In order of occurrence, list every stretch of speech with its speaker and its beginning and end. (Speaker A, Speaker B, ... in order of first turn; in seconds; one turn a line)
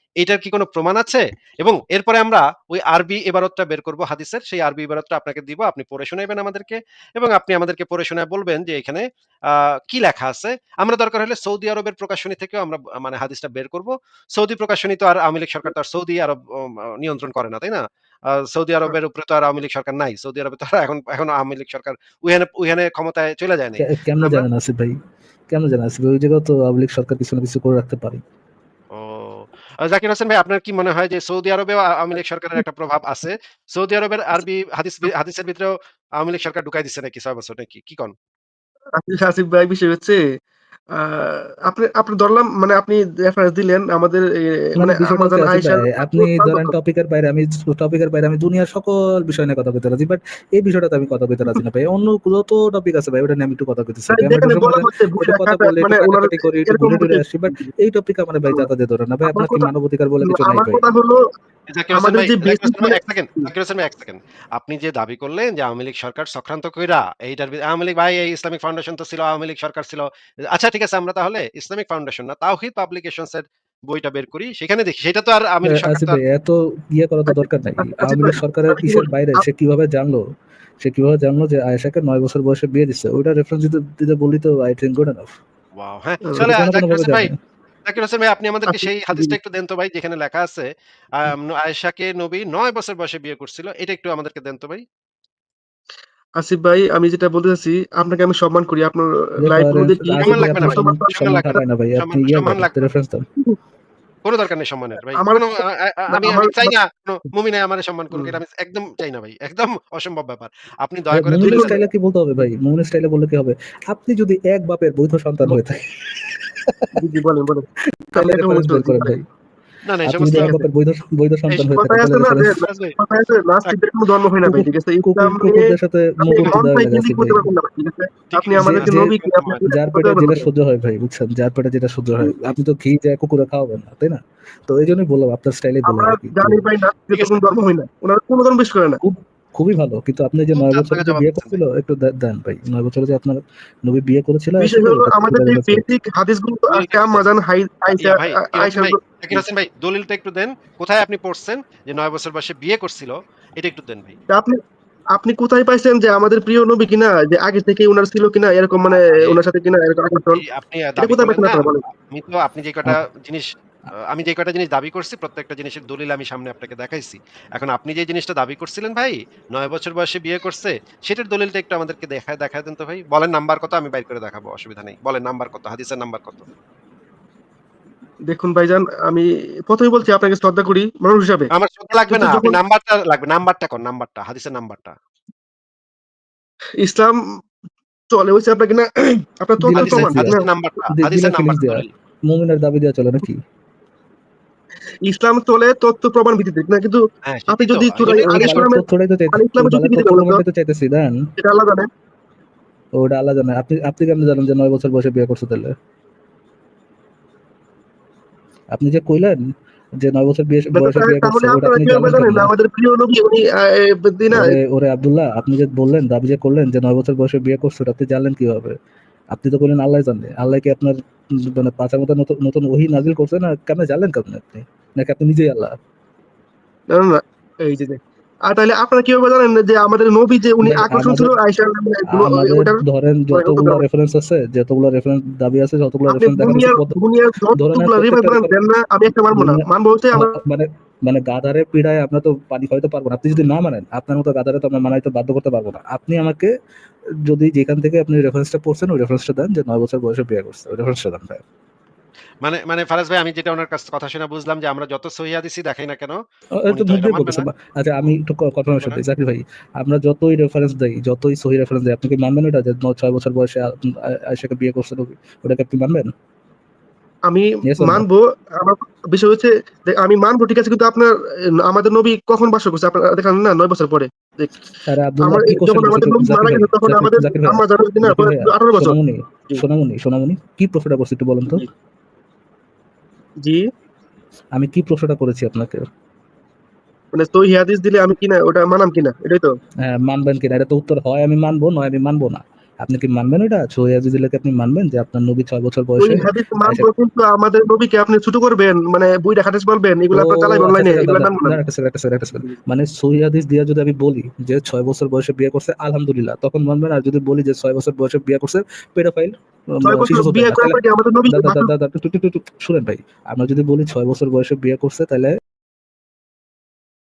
Speaker A: 0.2-24.4
Speaker B: 23.8-25.0
Speaker B: 25.5-28.2
Speaker A: 28.9-38.1
Speaker C: 39.0-40.2
Speaker C: 40.9-46.8
Speaker B: 44.8-60.8
Speaker C: 54.1-57.7
Speaker C: 59.3-59.7
Speaker C: 60.2-61.2
Speaker A: 61.7-76.2
Speaker C: 62.0-63.5
Speaker B: 75.7-80.3
Speaker C: 77.3-79.5
Speaker B: 80.8-85.3
Speaker A: 85.8-87.3
Speaker B: 86.4-87.4
Speaker A: 87.9-94.8
Speaker C: 88.7-89.3
Speaker C: 96.4-101.6
Speaker B: 99.4-103.3
Speaker A: 100.2-102.9
Speaker A: 104.2-111.8
Speaker C: 105.1-105.5
Speaker C: 106.1-106.7
Speaker B: 111.1-117.0
Speaker C: 111.4-111.8
Speaker C: 117.0-119.2
Speaker B: 118.1-119.3
Speaker A: 119.9-120.6
Speaker B: 120.1-122.6
Speaker C: 120.2-120.6
Speaker A: 121.5-121.9
Speaker C: 121.8-130.5
Speaker A: 122.5-123.0
Speaker B: 124.4-127.5
Speaker A: 128.3-129.6
Speaker B: 128.6-136.6
Speaker C: 135.8-139.0
Speaker B: 139.0-145.8
Speaker A: 140.5-141.6
Speaker C: 144.6-149.4
Speaker A: 146.7-147.3
Speaker A: 147.9-154.2
Speaker C: 154.3-154.6
Speaker C: 155.1-160.4
Speaker A: 158.9-159.4
Speaker A: 160.3-163.5
Speaker C: 161.0-161.8
Speaker A: 164.0-176.5
Speaker C: 178.3-181.5
Speaker A: 181.5-184.9
Speaker C: 182.1-182.6
Speaker C: 186.8-187.2
Speaker C: 188.1-190.5
Speaker B: 189.6-193.4
Speaker A: 189.8-191.9
Speaker C: 195.1-200.4
Speaker A: 197.3-198.6
Speaker B: 198.0-201.3
Speaker C: 201.4-201.9
Speaker B: 203.0-205.7
Speaker B: 208.7-209.5
Speaker B: 210.0-212.5
Speaker C: 210.7-214.6
Speaker B: 214.3-218.8
Speaker B: 219.3-225.8
Speaker C: 226.9-233.8
Speaker B: 230.6-231.3
Speaker B: 232.1-237.0
Speaker C: 236.1-240.4
Speaker B: 237.5-238.5
Speaker B: 239.3-246.5
Speaker B: 247.3-251.4
Speaker A: 252.4-257.5
Speaker B: 256.6-266.1
Speaker A: 258.7-259.0
Speaker C: 267.3-274.6
Speaker B: 267.6-268.1
Speaker B: 274.9-281.6
Speaker C: 275.2-279.0
Speaker B: 284.6-285.9
Speaker C: 287.1-289.5
Speaker B: 289.8-296.9
Speaker C: 296.0-301.6
Speaker B: 300.1-315.4
Speaker C: 309.8-311.7